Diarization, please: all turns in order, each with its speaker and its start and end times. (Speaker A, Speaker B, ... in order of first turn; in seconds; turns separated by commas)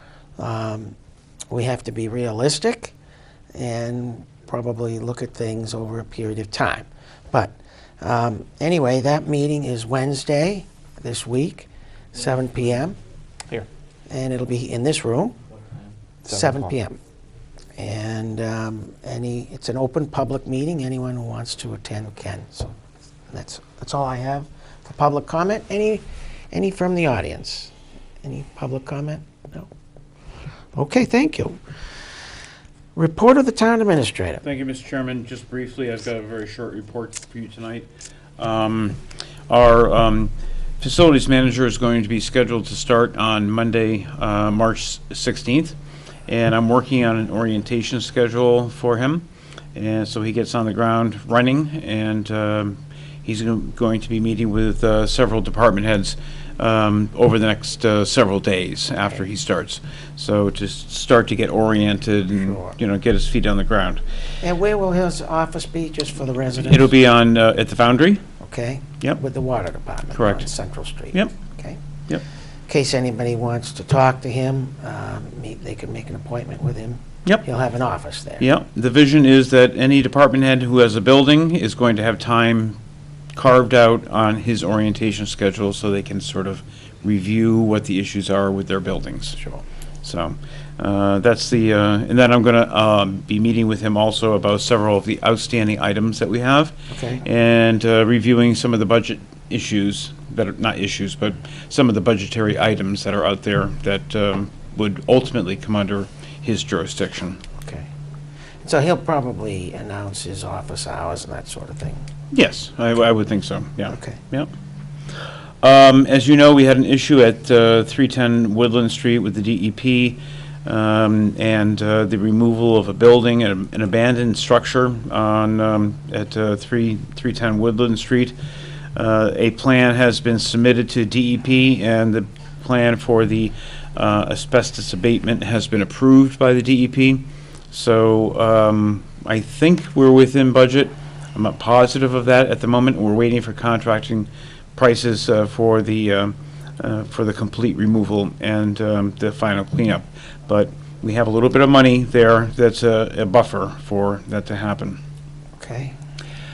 Speaker A: 0.4-0.9, Speaker A: 1.5-2.9, Speaker A: 3.5-13.0, Speaker A: 14.1-15.3, Speaker A: 16.2-17.0, Speaker B: 16.3-16.7, Speaker A: 17.8-22.7, Speaker A: 23.3-29.7, Speaker A: 30.8-31.6, Speaker A: 33.0-34.4, Speaker B: 34.4-39.0, Speaker B: 39.5-45.7, Speaker B: 46.3-64.0, Speaker A: 62.5-62.7, Speaker A: 64.4-66.9, Speaker B: 66.6-68.2, Speaker A: 68.4-71.8, Speaker B: 70.1-70.5, Speaker A: 72.7-78.5, Speaker B: 78.4-82.8, Speaker B: 83.3-89.4, Speaker B: 90.0-107.4, Speaker A: 96.9-97.2, Speaker A: 107.6-107.9, Speaker A: 108.6-112.0, Speaker B: 112.3-114.5, Speaker A: 113.9-114.2, Speaker B: 115.6-128.3, Speaker B: 128.9-155.0, Speaker A: 155.6-155.9